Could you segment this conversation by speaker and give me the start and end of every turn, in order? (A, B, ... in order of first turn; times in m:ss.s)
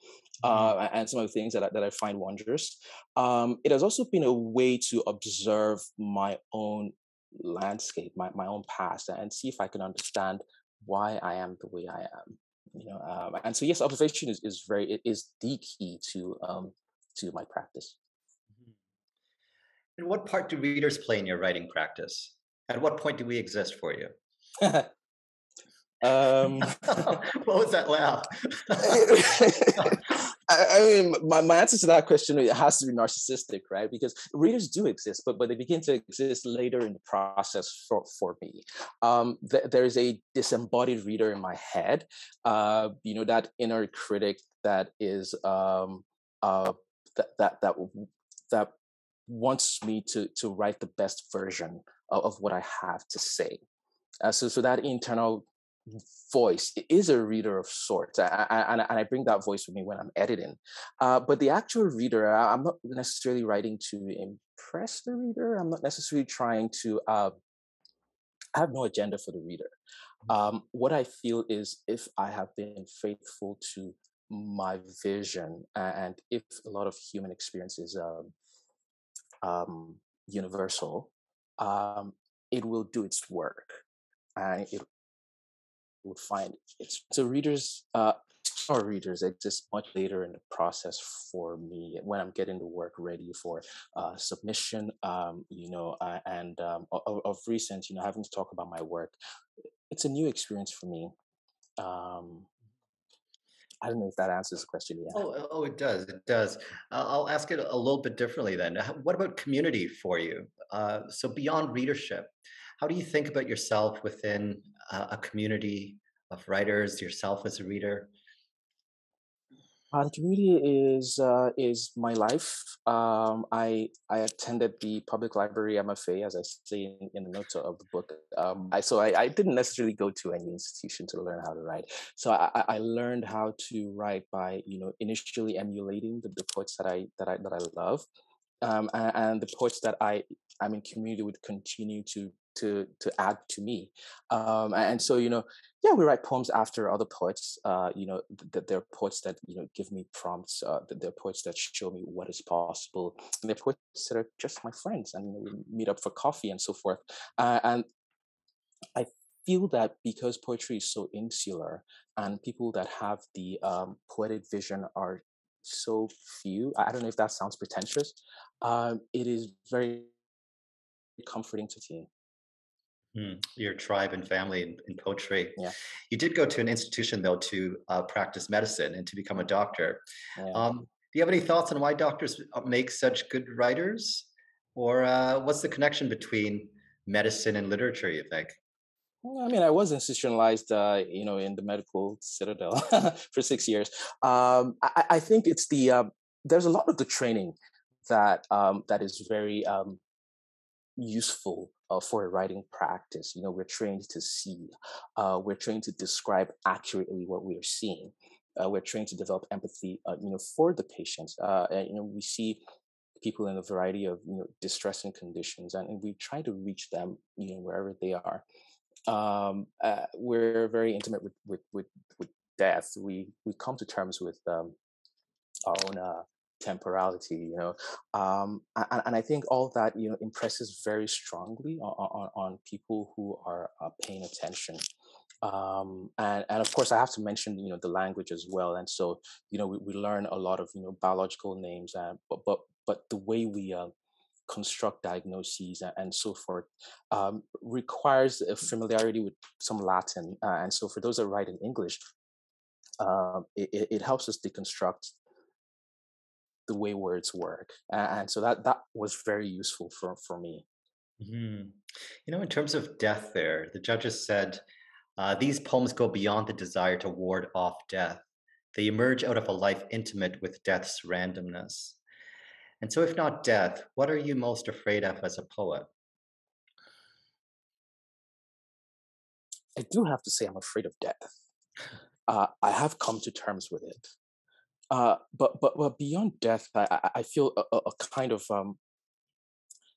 0:00.4-0:18.0 A
0:00.4-0:00.7 B
0:20.0-0:24.1 B
0:24.6-0:24.9 A
0:26.0-0:27.0 A
0:26.9-0:29.2 B
0:28.8-0:48.7 A
0:49.3-0:53.6 A
0:54.2-1:07.4 A
1:08.5-1:09.7 A
1:10.3-1:18.3 A
1:19.4-1:23.8 A
1:24.4-1:24.8 A
1:26.0-1:39.2 A
1:39.9-1:41.1 A
1:41.8-1:42.5 A
1:43.8-1:45.2 A
1:45.1-1:58.1 B
1:59.9-2:18.0 A
2:18.6-2:37.8 A
2:38.9-2:50.1 A
2:51.2-2:52.1 A
2:53.1-2:55.6 B
2:56.1-3:08.6 B
3:00.4-3:00.6 A
3:09.2-3:20.0 A
3:21.0-3:32.6 A
3:33.2-3:38.4 A
3:39.1-3:44.7 A
3:45.6-3:54.8 A
3:55.4-4:03.9 A
4:04.5-4:12.0 A
4:13.0-4:15.1 A
4:16.7-4:20.6 A
4:21.2-4:24.6 B
4:25.2-4:32.0 B
4:32.8-4:35.9 B
4:39.8-4:41.4 A
4:42.3-4:44.1 A
4:44.9-4:48.8 A